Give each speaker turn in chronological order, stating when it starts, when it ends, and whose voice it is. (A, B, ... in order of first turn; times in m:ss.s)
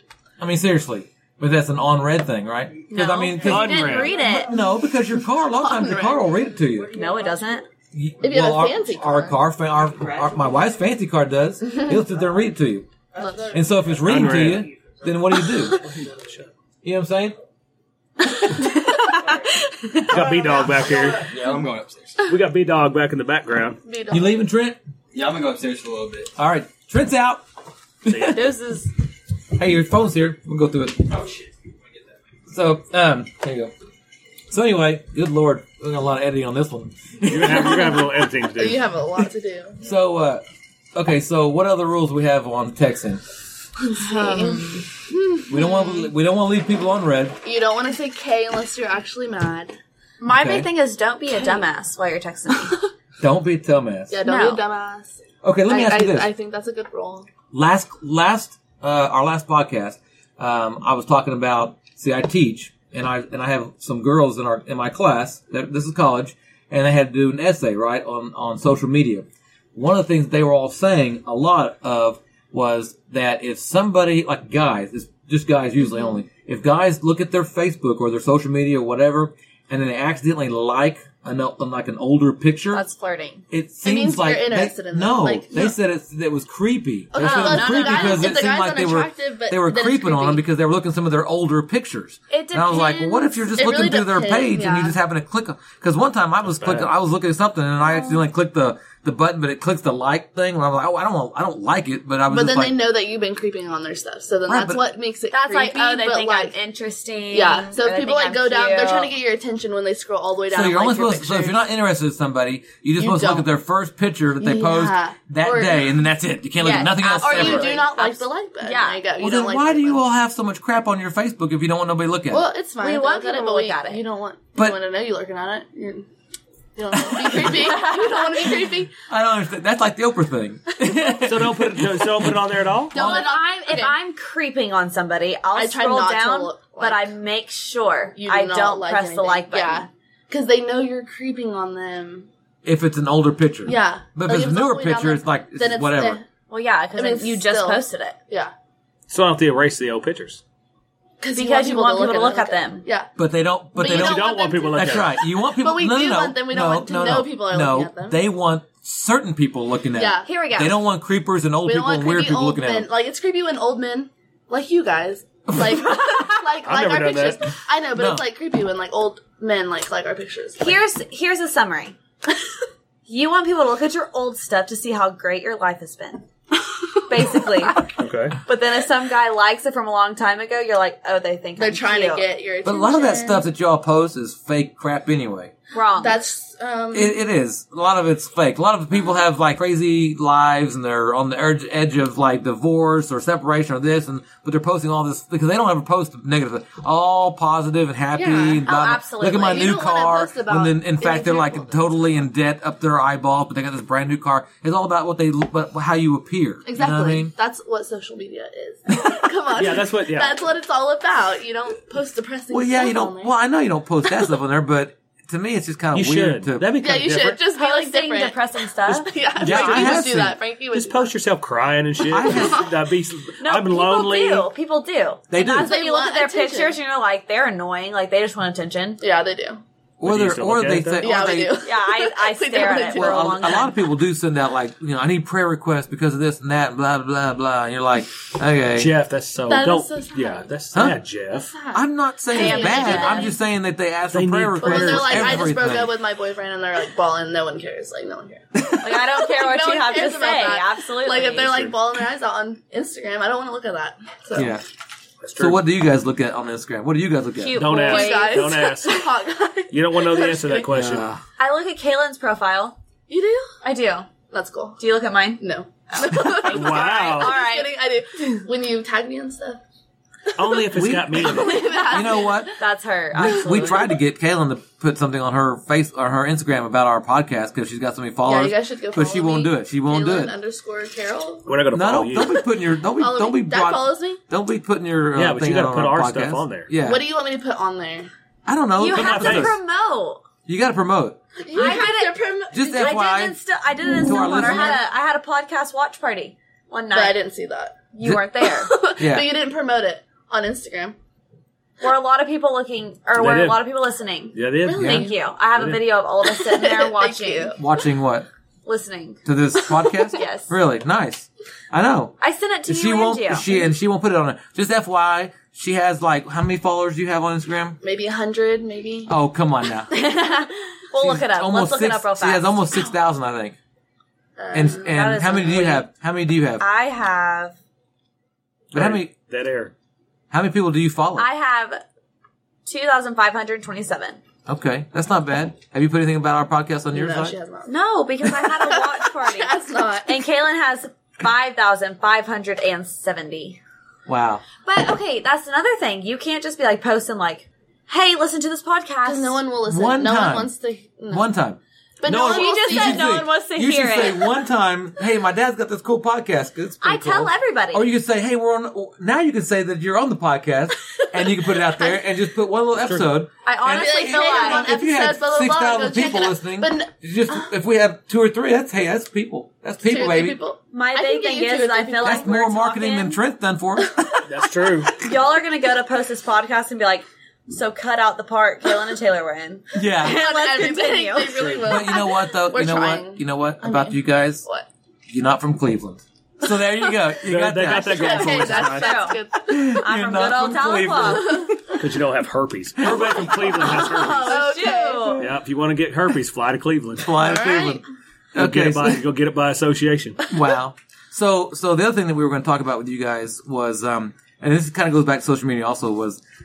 0:00.4-0:06.9 A
0:02.9-0:04.5 B
0:03.4-0:04.2 C
0:05.6-0:06.2 D
0:06.9-0:07.7 B
0:07.9-0:12.9 A
0:08.2-0:09.4 D
0:13.2-0:13.6 D
0:13.5-0:15.8 A
0:14.0-0:14.7 C
0:15.7-0:16.5 C
0:16.8-0:17.4 A
0:18.5-0:20.2 B
0:20.1-0:21.3 C
0:20.2-0:20.9 D
0:21.2-0:22.3 E
0:22.3-0:23.8 C
0:23.8-0:24.4 D
0:24.1-0:24.8 A
0:25.1-0:26.3 E
0:26.4-0:27.4 A
0:28.0-0:28.4 A
0:28.1-0:28.5 C
0:28.3-0:28.9 B
0:29.6-0:31.2 A
0:32.5-0:33.7 A
0:34.5-0:38.0 A
0:37.3-0:38.8 C
0:38.6-0:39.8 D
0:39.8-0:40.4 A
0:41.0-0:43.2 A
0:43.8-0:46.1 D
0:44.0-0:44.9 B
0:45.5-0:47.4 A
0:47.4-0:49.8 D
0:50.2-0:52.8 B
0:50.3-0:50.7 A
0:51.3-0:51.7 D
0:53.2-0:54.2 A
0:54.1-0:55.2 D
0:54.2-0:54.6 B
0:55.4-0:56.3 A
0:55.7-0:57.3 D
0:57.5-1:22.8 A
1:22.7-1:23.4 B
1:23.5-1:42.8 A
1:23.8-1:25.8 D
1:27.1-1:30.4 D
1:27.2-1:28.4 B
1:32.3-1:33.4 B
1:33.6-1:35.0 D
1:36.5-1:36.9 C
1:37.9-1:38.2 B
1:42.3-1:46.6 D
1:44.5-1:44.8 A
1:45.3-1:49.2 B
1:47.3-1:51.6 D
1:50.5-1:57.9 A
1:53.0-1:53.5 D
1:54.4-1:56.0 D
1:56.6-1:59.1 B
1:57.2-2:00.1 D
1:59.2-2:02.5 A
2:02.3-2:06.1 D
2:02.8-2:04.0 B
2:06.8-2:08.9 D
2:06.9-2:07.6 A
2:07.3-2:08.6 B
2:09.0-2:12.4 A
2:11.2-2:13.0 C
2:12.9-2:14.0 D
2:12.9-2:19.9 B
2:15.5-2:17.2 D
2:18.2-2:22.3 D
2:22.6-2:26.2 A
2:23.7-2:26.3 D
2:26.5-2:28.2 B
2:27.0-2:28.5 D
2:29.1-2:30.4 C
2:31.2-2:33.1 D
2:31.3-2:32.9 B
2:33.2-2:42.9 A
2:33.8-2:38.2 D
2:33.8-2:35.2 C
2:39.9-2:40.3 D
2:40.2-2:40.8 B
2:41.6-2:50.8 D
2:46.6-2:47.4 C
2:47.9-2:48.3 A
2:50.6-2:52.0 B
2:53.1-2:56.3 B
2:57.1-2:57.9 B
2:58.0-2:58.4 C
2:58.4-3:02.3 B
3:01.6-3:03.4 D
3:02.6-3:05.5 A
3:05.7-3:06.2 B
3:06.0-3:07.2 D
3:06.9-3:27.3 A
3:18.2-3:18.8 D
3:18.6-3:19.8 B
3:19.3-3:22.0 D
3:26.6-3:33.4 D
3:29.6-3:30.4 C
3:32.5-3:36.7 A
3:35.9-3:37.4 C
3:36.8-3:41.1 D
3:37.5-3:39.2 B
3:39.4-3:40.2 C
3:39.4-3:40.4 A
3:40.7-3:44.5 C
3:42.1-3:42.7 A
3:42.2-3:42.7 D
3:43.4-3:49.0 B
3:45.3-3:45.8 A
3:45.6-3:46.8 D
3:49.0-3:49.6 D
3:50.0-3:51.6 A
3:50.0-3:51.0 C
3:51.0-3:53.4 D
3:51.6-3:53.8 B
3:52.9-3:58.9 A
3:58.8-4:01.5 C
3:59.5-4:00.5 D
4:00.7-4:01.0 A
4:01.3-4:01.8 D
4:01.7-4:05.9 A
4:02.3-4:03.4 B
4:02.3-4:03.3 D
4:04.1-4:05.5 C
4:04.6-4:14.6 D
4:08.8-4:11.8 B
4:14.4-4:14.6 A
4:15.2-4:15.6 C
4:15.4-4:17.7 A
4:17.4-4:18.6 B
4:17.6-4:19.1 C
4:17.8-4:20.7 D
4:19.7-4:21.1 C
4:20.7-4:21.2 A
4:21.4-4:22.8 B
4:23.1-4:23.5 D
4:23.6-4:24.1 B
4:24.3-4:24.8 D
4:24.8-4:27.7 B
4:25.4-4:29.6 D
4:26.5-4:27.4 C
4:30.4-4:31.8 C
4:30.7-4:31.3 A
4:31.1-4:32.5 D
4:31.4-4:34.0 B
4:31.9-4:32.6 A
4:33.1-4:40.4 A
4:38.3-4:41.5 D
4:41.5-4:42.4 C
4:41.7-4:47.0 A
4:43.0-4:44.2 D
4:45.2-4:46.7 C
4:46.8-4:48.1 D
4:48.5-4:49.6 A
4:48.8-4:50.2 B
4:48.9-4:49.6 C
4:50.5-4:51.2 A
4:51.4-4:53.0 D
4:51.5-4:57.2 B
4:52.5-4:53.4 A
4:54.0-4:54.8 A
4:54.1-4:54.8 D
4:56.9-5:01.0 D
4:57.9-4:58.7 B
4:59.0-4:59.3 A
5:01.8-5:07.6 B
5:03.2-5:03.6 C
5:04.3-5:05.8 C
5:04.7-5:05.1 D
5:04.8-5:05.1 A
5:06.2-5:07.6 D
5:07.6-5:08.3 A
5:08.6-5:09.2 B
5:09.2-5:12.1 A
5:10.1-5:10.5 B
5:12.2-5:13.6 B
5:12.7-5:17.8 A
5:17.8-5:19.1 D
5:19.1-5:19.9 A
5:19.9-5:22.6 B
5:21.0-5:23.6 A
5:24.4-5:24.9 D
5:24.5-5:26.6 A
5:24.8-5:25.9 B
5:26.6-5:27.6 B
5:28.7-5:29.7 C
5:28.7-5:29.1 A
5:30.3-5:31.3 A
5:31.2-5:31.8 B
5:32.7-5:34.2 B
5:34.5-5:37.4 A
5:36.9-5:40.2 D
5:37.7-5:43.6 B
5:44.1-5:44.4 A
5:44.6-5:49.4 B
5:49.0-5:51.3 D
5:49.7-5:50.5 A
5:51.1-6:10.4 A
5:52.0-5:53.2 D
5:52.2-5:54.3 B
5:56.8-5:57.9 B
6:02.8-6:03.1 C
6:03.4-6:04.8 B
6:03.7-6:07.5 D
6:09.8-6:12.3 D
6:10.7-6:13.2 B
6:12.0-6:14.0 A
6:14.3-6:15.0 C
6:15.0-6:21.5 B
6:19.7-6:20.3 A
6:20.0-6:24.7 D
6:21.5-6:24.5 A
6:25.1-6:31.7 A
6:27.3-6:28.9 C
6:27.7-6:29.7 D
6:28.6-6:29.2 B
6:29.8-6:31.4 B
6:31.8-6:34.5 C
6:32.8-6:33.7 A
6:33.6-6:35.3 B
6:34.3-6:35.2 D
6:35.2-6:37.1 C
6:37.0-6:37.8 A
6:37.2-6:37.8 D
6:38.3-6:39.0 A
6:38.4-6:40.2 C
6:40.3-6:46.2 A